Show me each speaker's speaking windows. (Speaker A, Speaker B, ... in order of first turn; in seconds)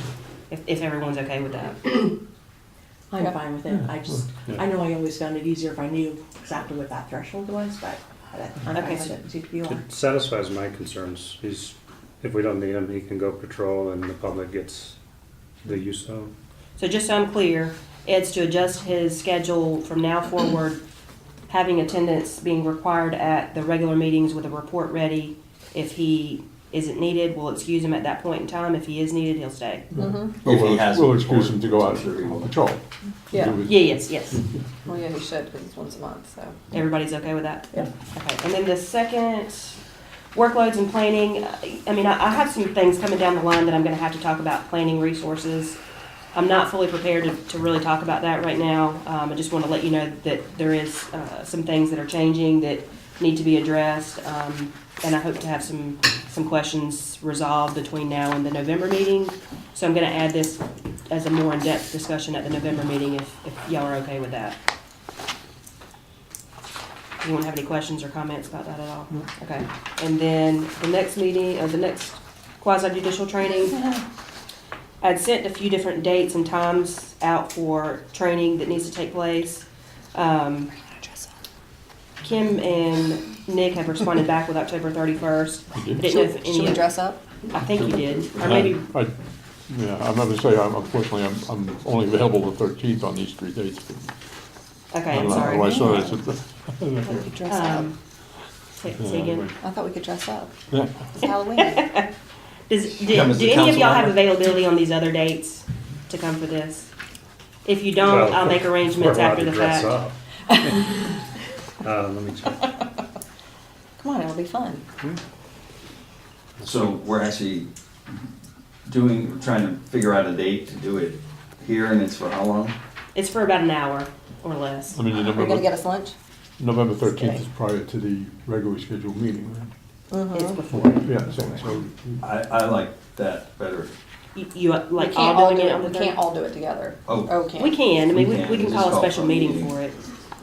Speaker A: 0.5-2.1, 8.7-9.1, 16.8-20.8, 21.5-29.9, 33.6-34.4, 36.7-39.8, 40.3-45.8, 46.3-64.6, 67.2-73.8, 75.0-80.7, 82.2-86.8, 87.5-88.9, 94.9-96.0, 97.4-98.0, 98.8-99.5, 101.2-102.1, 102.7-106.9, 107.6-110.0, 123.1-125.0, 130.3-131.6, 134.3-136.2, 137.6-139.9
Speaker B: 3.1-9.8
Speaker C: 9.7-14.9, 15.6-16.3, 108.0-110.1, 111.8-112.8, 116.6-116.9
Speaker D: 29.9-34.0, 85.7-86.2, 88.4-89.1, 89.7-94.1, 95.1-97.2, 99.0-99.5, 100.7-101.0, 124.9-125.8, 126.6-129.7, 130.7-132.2
Speaker E: 30.0-30.3, 33.3-33.6, 34.9-36.6, 86.1-87.2, 95.5-96.0, 97.0-97.9, 99.6-100.6, 101.2-101.8, 114.0-114.8, 125.3-126.1, 127.0-127.4, 130.1-130.6, 135.0-137.8
Speaker F: 30.4-32.5, 103.1-104.2, 116.6-117.7, 118.8-122.7, 132.2-133.9, 137.1-137.4, 138.1-139.7